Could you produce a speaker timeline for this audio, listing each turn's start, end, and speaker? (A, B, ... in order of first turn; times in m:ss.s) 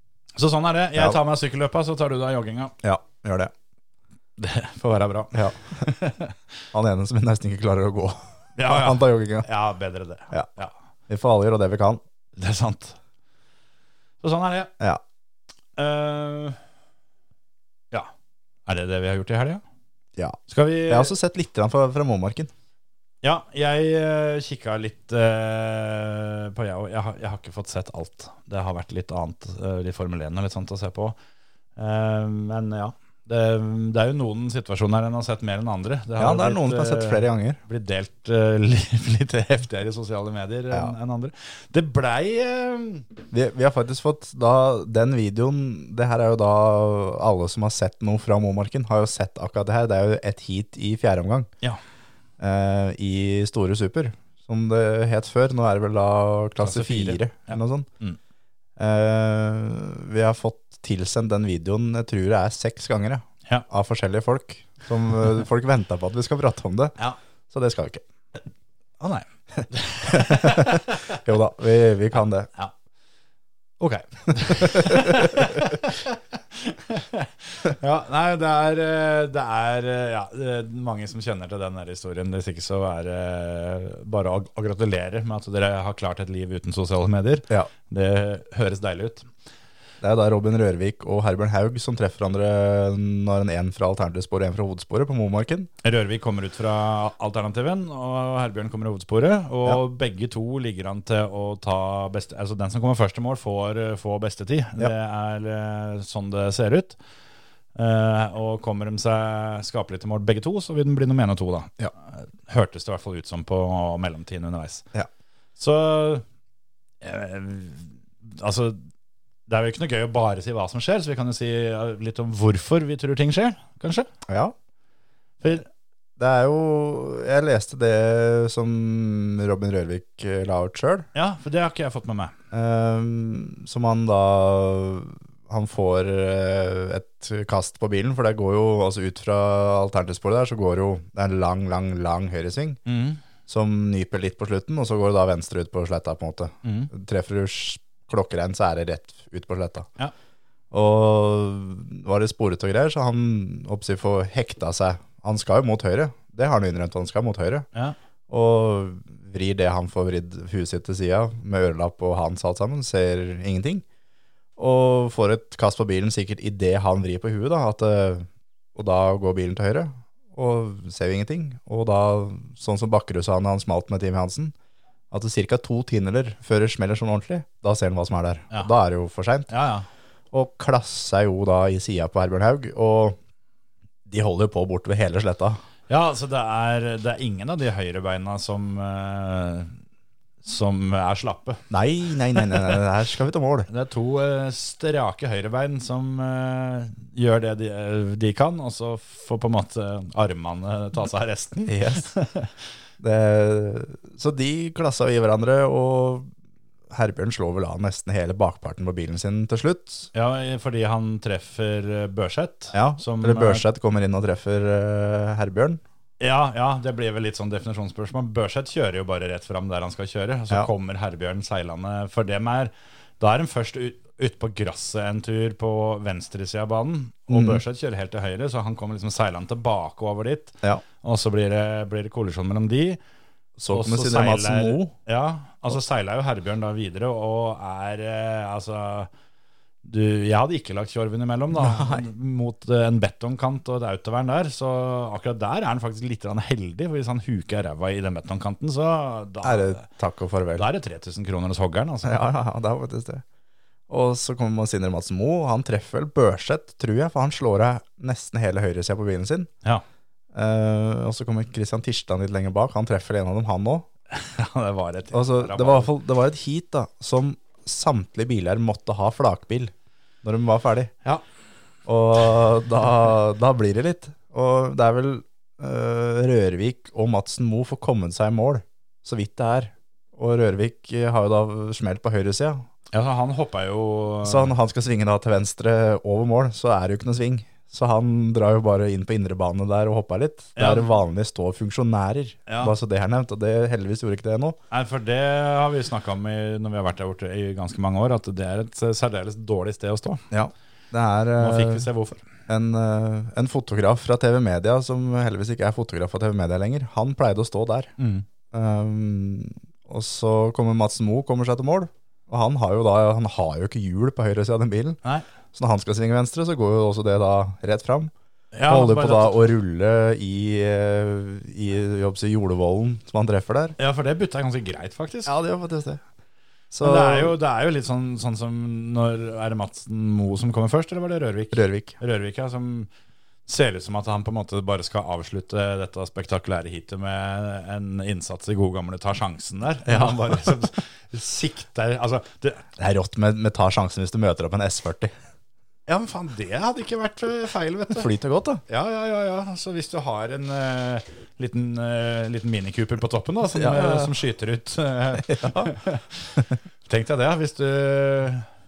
0:00.4-0:02.7 A
0:02.8-0:03.5 B
0:04.4-0:06.4 A
0:05.3-0:05.6 B
0:06.7-0:09.5 B
0:08.6-0:10.7 A
0:11.1-0:12.0 B
0:12.4-0:13.0 A
0:14.2-0:14.7 A
0:15.8-0:16.6 A
0:18.7-0:19.6 A
0:20.2-0:22.5 B
0:20.5-0:21.1 A
0:23.2-0:31.2 A
0:31.8-0:43.1 A
0:36.2-0:37.6 B
0:43.3-0:51.5 B
0:52.4-0:57.9 B
0:56.6-0:58.2 A
0:58.8-1:07.0 B
1:07.5-1:08.0 B
1:09.0-1:11.2 A
1:10.0-1:12.5 B
1:13.8-1:29.3 A
1:14.5-1:15.5 B
1:30.0-1:35.7 B
1:35.8-1:47.0 A
1:47.8-1:54.9 A
1:55.6-1:56.2 A
1:57.0-1:58.8 A
1:59.5-2:04.1 A
2:04.3-2:04.5 B
2:06.2-2:11.1 B
2:11.1-2:12.3 A
2:12.5-2:22.8 B
2:22.9-2:23.2 A
2:23.5-2:29.9 B
2:26.6-2:26.9 A
2:30.7-2:37.7 B
2:38.3-2:43.8 B
2:44.6-2:54.5 B
2:55.1-2:59.5 B
2:59.5-2:59.9 A
3:00.3-3:03.2 B
3:04.1-3:05.6 B
3:05.9-3:09.8 A
3:10.4-3:11.6 A
3:11.7-3:13.7 B
3:12.3-3:12.7 A
3:13.7-3:22.5 A
3:21.7-3:22.1 B
3:23.0-3:26.3 B
3:26.9-3:30.1 B
3:30.1-3:33.6 A
3:32.7-3:35.8 B
3:36.2-3:53.0 A
3:47.3-3:47.6 B
3:53.6-3:54.9 B
3:53.7-3:59.1 A
3:59.8-4:09.8 A
4:01.5-4:02.1 B
4:09.4-4:10.7 B
4:10.6-4:12.3 A
4:12.0-4:13.2 B
4:13.9-4:19.5 B
4:20.3-4:23.9 B
4:24.1-4:25.9 A
4:25.1-4:30.9 B
4:31.9-4:42.7 B
4:42.9-4:44.5 A
4:44.2-4:54.6 B
4:50.6-4:51.0 A
4:52.5-4:52.7 A
4:54.7-5:00.2 A
5:00.3-5:01.9 B
5:01.4-5:02.2 A
5:02.5-5:07.9 B
5:08.0-5:08.2 A
5:08.5-5:15.0 B
5:15.5-5:18.1 B
5:18.5-5:19.5 A
5:18.7-5:23.8 B
5:23.8-5:25.3 A
5:25.3-5:26.0 B
5:26.7-5:27.4 B
5:26.8-5:32.9 A
5:31.5-5:32.0 B
5:33.5-5:42.7 A
5:39.9-5:40.5 B
5:42.8-5:45.1 B
5:45.9-5:48.1 A
5:48.0-5:48.6 B
5:48.7-5:58.5 A
5:53.6-5:54.1 B
5:55.2-5:55.7 B